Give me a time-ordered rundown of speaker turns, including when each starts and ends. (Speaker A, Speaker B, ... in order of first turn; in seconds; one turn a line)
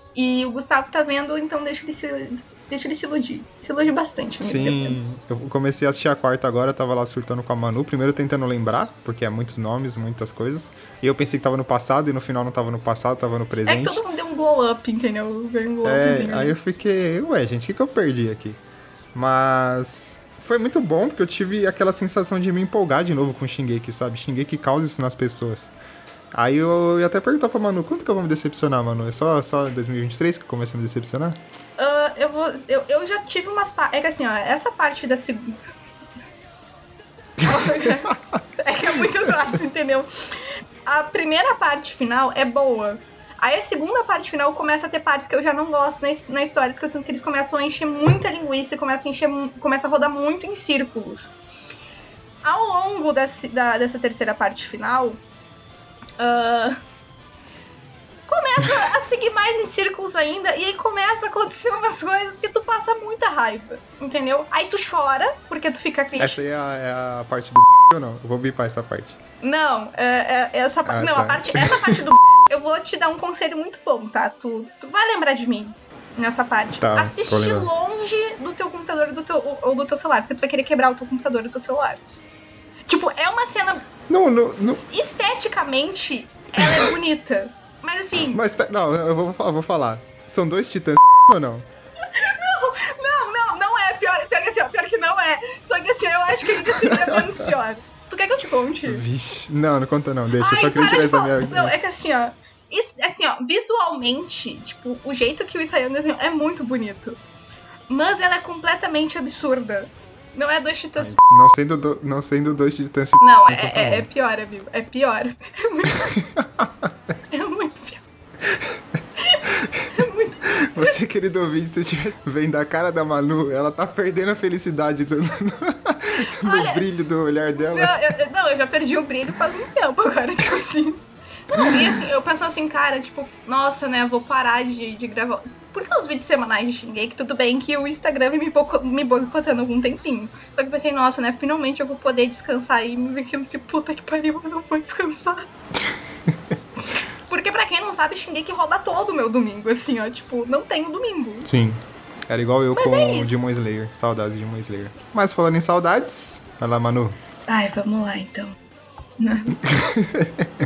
Speaker A: 0.1-5.0
Speaker B: 4.4-14.0
Speaker A: 13.7-16.6
Speaker B: 15.8-18.6
Speaker B: 19.1-25.7
Speaker B: 26.3-31.4
Speaker A: 31.8-35.6
Speaker A: 37.4-51.4
Speaker A: 52.4-55.2
Speaker A: 56.2-56.8
Speaker A: 58.3-66.4
Speaker B: 66.2-69.2
Speaker A: 69.4-82.0
Speaker B: 70.8-72.0
Speaker B: 76.8-77.7
Speaker A: 82.9-83.8
Speaker B: 84.1-84.8
Speaker A: 84.9-88.4
Speaker B: 86.6-86.9
Speaker B: 88.3-91.7
Speaker A: 92.1-99.0
Speaker B: 96.6-97.5
Speaker B: 98.8-101.7
Speaker A: 100.4-107.2
Speaker A: 107.9-111.2
Speaker B: 111.0-114.1
Speaker A: 113.2-116.2
Speaker B: 116.2-116.9
Speaker A: 117.3-118.0
Speaker A: 119.2-120.9
Speaker B: 119.5-119.9
Speaker B: 120.5-128.1
Speaker A: 126.2-126.8
Speaker A: 127.6-145.5
Speaker A: 147.3-151.5
Speaker B: 151.4-157.1
Speaker A: 152.7-153.4
Speaker A: 157.5-158.6
Speaker A: 159.2-159.8
Speaker B: 159.7-160.5